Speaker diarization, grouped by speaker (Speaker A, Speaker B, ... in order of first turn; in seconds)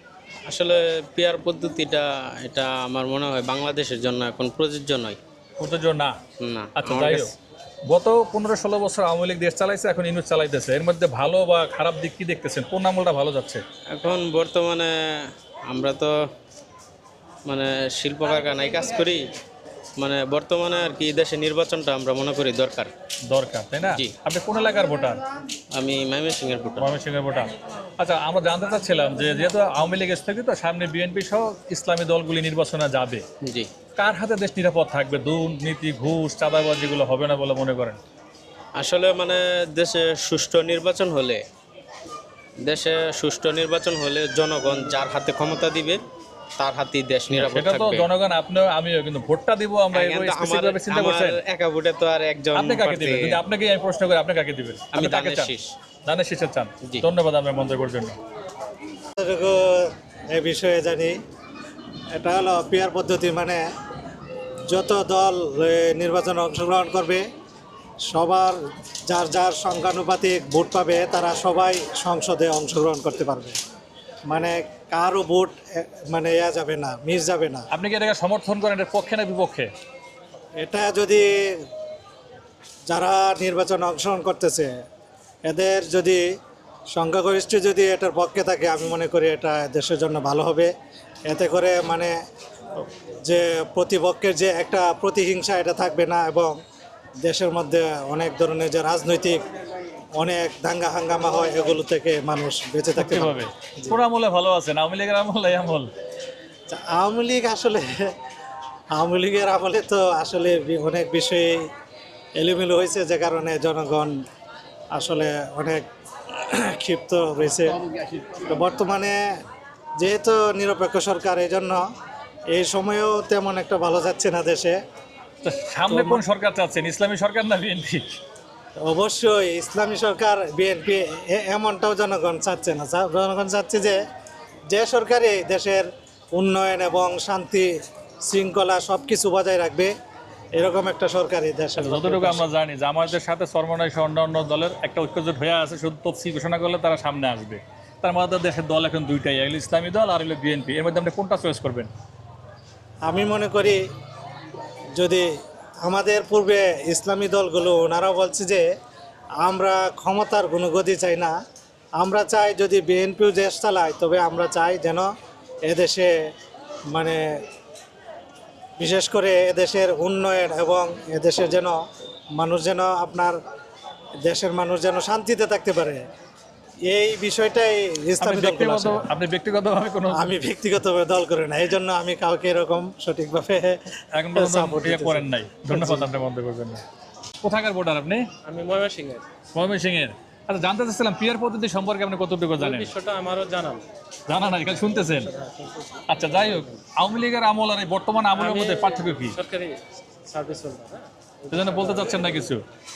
Speaker A: 0.5-5.2, 6.4-7.3, 13.9-16.2, 17.5-19.2, 20.0-22.9, 25.8-26.9, 33.4-33.7, 38.8-41.4, 42.6-46.0, 46.6-48.1, 49.9-53.4, 54.9-55.7
Speaker B: 5.6-6.2, 6.8-7.3, 7.9-13.6, 23.3-25.2, 26.8-33.2, 34.0-38.0, 47.3-51.4, 52.5-55.5, 56.1-58.2, 77.7-79.7, 103.0-105.9, 125.4-128.2, 141.8-151.9, 178.2-180.3, 184.1-186.8, 187.4-188.2, 189.6-192.9, 194.3-195.3, 196.1-199.4, 201.5-202.6
Speaker C: 59.2-61.2, 62.1-63.6, 64.7-67.2, 68.1-73.6, 74.3-77.7, 80.6-81.3, 82.9-84.7, 85.5-86.2, 86.9-90.7, 91.3-92.2, 92.8-96.6, 97.2-99.4, 100.2-104.0, 106.7-107.9, 109.0-111.7, 112.4-114.1, 115.0-119.2, 120.0-121.8, 122.5-124.8, 125.9-126.2, 128.8-134.0, 134.7-137.7, 138.3-139.9, 140.6-142.4, 153.1-153.8, 155.0-155.3, 155.8-158.7, 159.4-161.3, 162.0-165.1, 165.7-166.1, 166.9-167.3, 168.8-171.8, 172.4-173.4, 174.2-176.0, 176.9-179.1, 180.1-183.8, 184.3-186.1
Speaker D: 188.4-189.2, 192.6-193.8, 195.0-196.8, 198.3-202.4